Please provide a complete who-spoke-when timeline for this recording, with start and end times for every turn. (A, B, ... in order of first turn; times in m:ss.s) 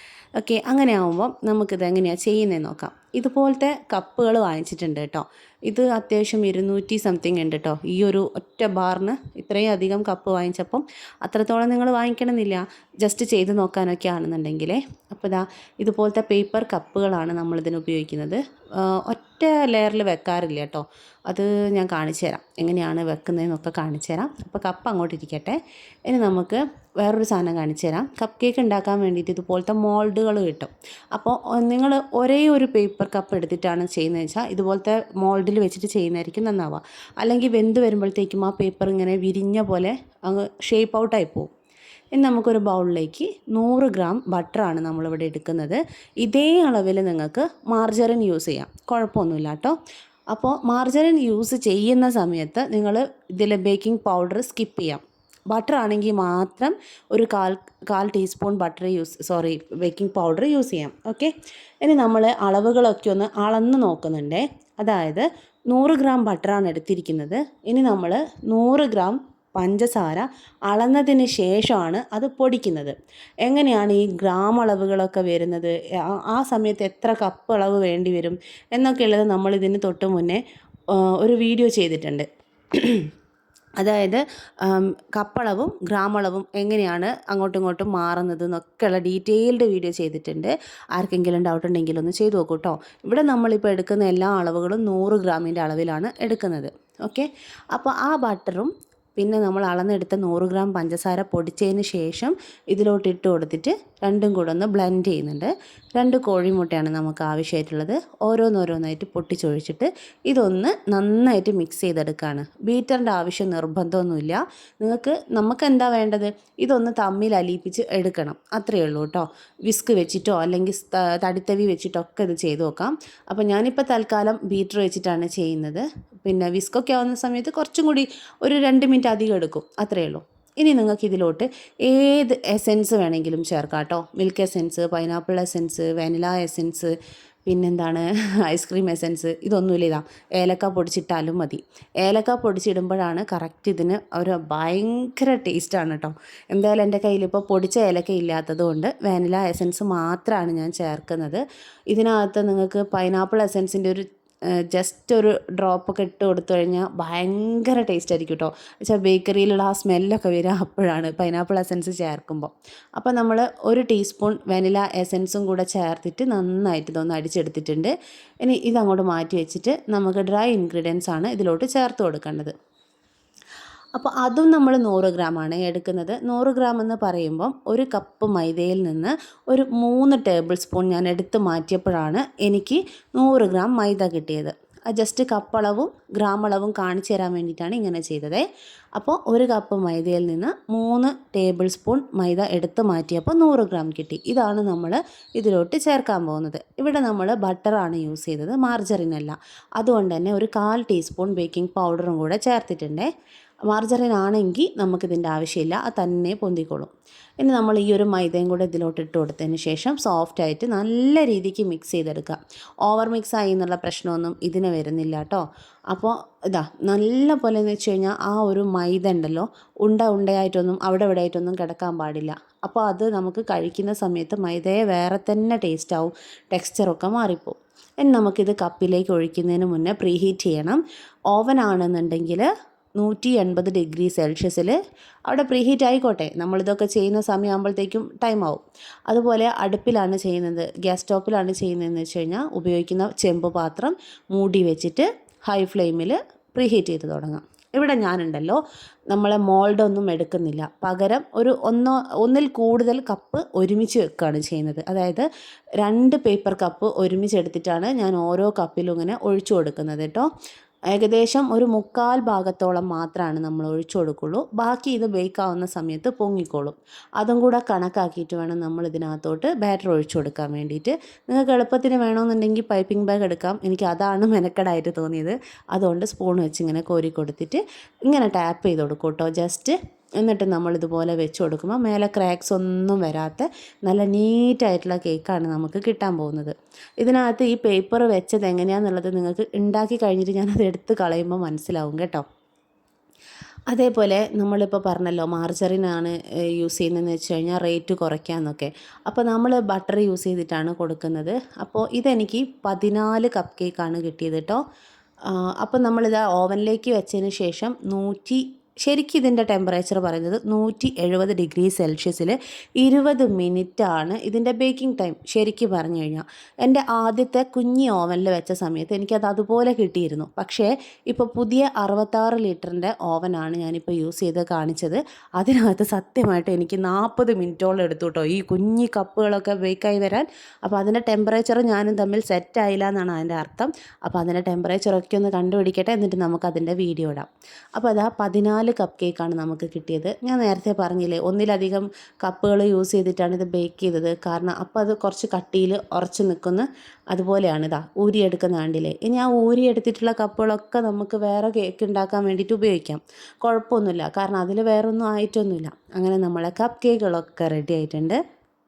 0:00.4-0:41.5 A
0:42.2-0:49.8 A
0:50.3-1:01.3 A
1:01.8-1:20.4 A
1:21.0-1:23.1 A
1:23.8-2:16.9 A
2:17.5-2:34.0 A
2:34.7-2:47.9 A
2:48.4-2:52.5 A
2:54.0-3:23.1 A
3:23.7-3:26.9 A
3:27.4-4:15.3 A
4:15.8-4:20.3 A
4:20.9-4:52.2 A
4:53.7-5:04.6 A
5:05.3-5:58.2 A